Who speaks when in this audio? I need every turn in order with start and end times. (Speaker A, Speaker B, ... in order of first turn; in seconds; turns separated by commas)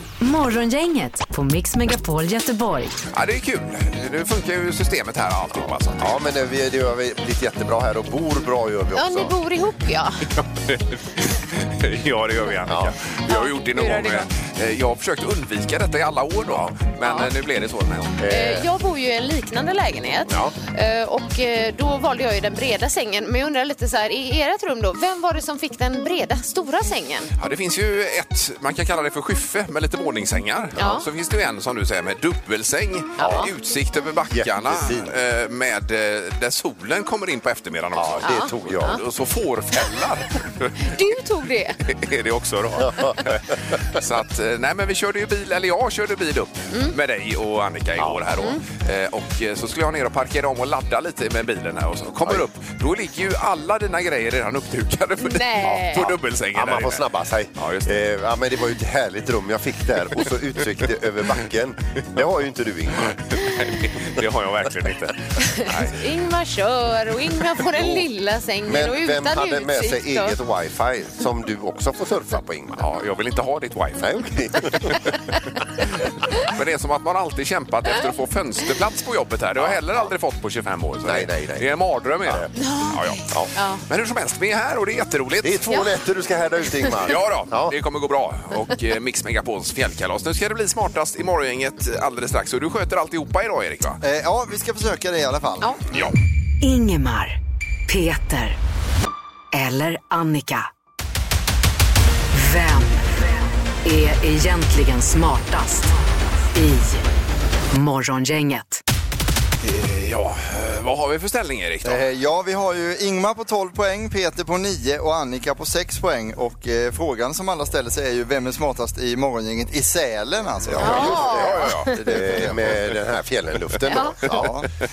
Speaker A: 0.2-3.0, Speaker B: 3.1-6.2, Speaker C: 5.6-9.3, Speaker D: 8.9-10.2, Speaker B: 10.3-18.2, Speaker C: 12.7-12.9, Speaker D: 13.3-14.3, Speaker C: 16.5-16.7, Speaker D: 17.0-17.3, Speaker C: 18.2-18.7, Speaker D: 18.3-27.3, Speaker C: 20.3-20.6, Speaker B: 27.4-41.0, Speaker D: 30.8-31.1, Speaker D: 33.2-33.5, Speaker C: 33.2-33.5, Speaker C: 34.3-35.1, Speaker C: 38.0-39.0, Speaker D: 38.2-39.0, Speaker D: 40.9-41.8, Speaker B: 41.8-58.0, Speaker C: 42.8-43.2, Speaker C: 48.0-48.4, Speaker D: 55.2-56.1, Speaker C: 56.5-63.4, Speaker B: 63.0-66.0, Speaker D: 65.4-70.4, Speaker B: 67.8-68.0, Speaker C: 68.7-72.9, Speaker B: 72.8-75.1, Speaker C: 74.0-75.1, Speaker B: 76.4-83.4, Speaker C: 79.6-80.0, Speaker C: 81.0-81.7, Speaker D: 82.6-83.8, Speaker B: 83.9-85.6, Speaker C: 85.4-87.8, Speaker B: 87.0-94.0, Speaker E: 94.0-95.7, Speaker A: 96.6-97.4, Speaker A: 97.9-98.6, Speaker A: 99.5-100.7, Speaker A: 102.3-103.3, Speaker A: 103.8-106.0, Speaker A: 106.5-107.0, Speaker A: 107.7-108.8, Speaker B: 109.6-112.0, Speaker E: 111.8-122.7, Speaker C: 120.6-124.6, Speaker B: 120.8-122.2, Speaker D: 120.8-121.9, Speaker D: 123.9-124.2, Speaker E: 124.3-124.7